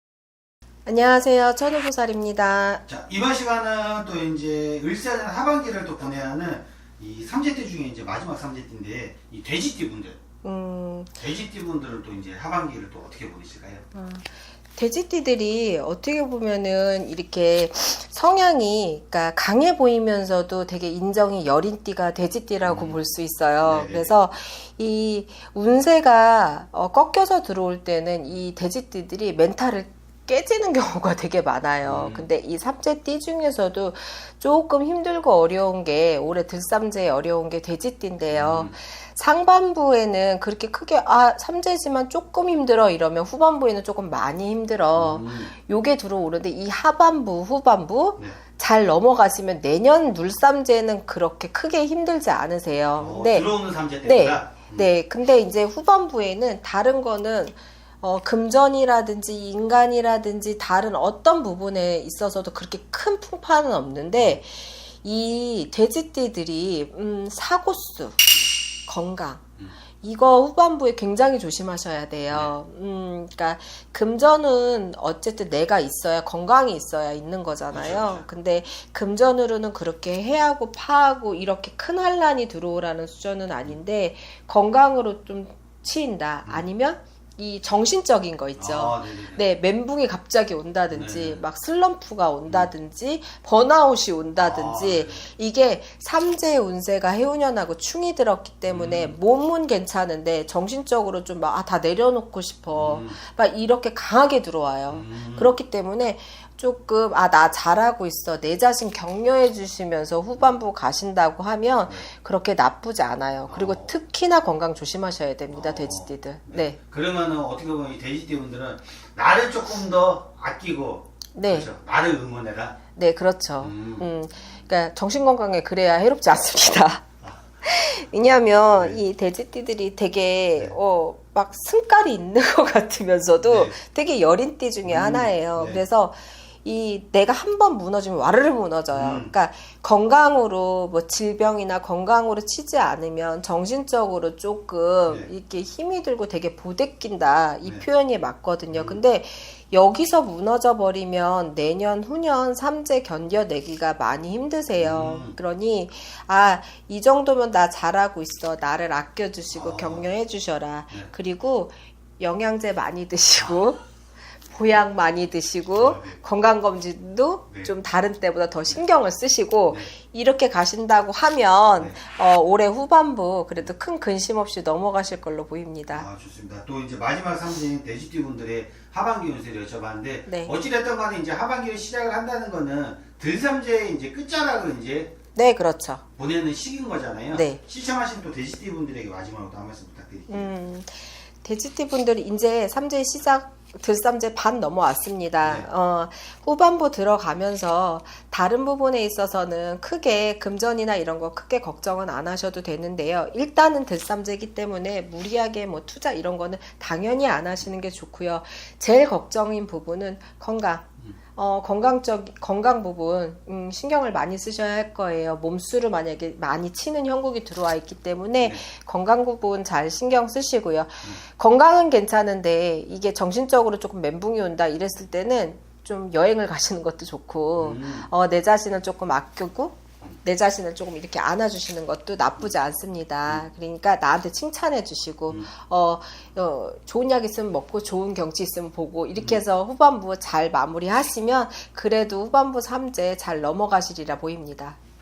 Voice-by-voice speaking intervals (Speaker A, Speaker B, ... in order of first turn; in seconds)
Speaker A: 0.8-2.8, 10.4-11.1, 13.9-53.5, 54.0-68.2, 68.9-69.4, 70.0-116.8, 121.3-121.7, 123.0-127.0, 127.6-163.8, 164.5-176.1, 180.3-180.5, 185.3-186.0, 187.3-187.6, 190.3-244.8
Speaker B: 2.9-10.2, 11.2-13.8, 22.6-23.0, 23.6-24.1, 31.8-32.3, 38.3-38.7, 44.9-45.5, 53.0-54.9, 72.3-72.5, 77.7-78.2, 88.6-89.4, 90.9-91.4, 94.3-95.2, 98.7-99.1, 102.7-103.2, 104.9-105.5, 113.5-113.9, 115.5-122.8, 123.6-124.1, 128.7-129.0, 133.4-133.7, 134.8-135.8, 138.9-139.3, 148.7-149.0, 154.8-155.4, 159.5-160.1, 165.8-166.2, 175.9-185.1, 186.2-190.5, 195.4-195.7, 227.6-228.1, 239.2-239.4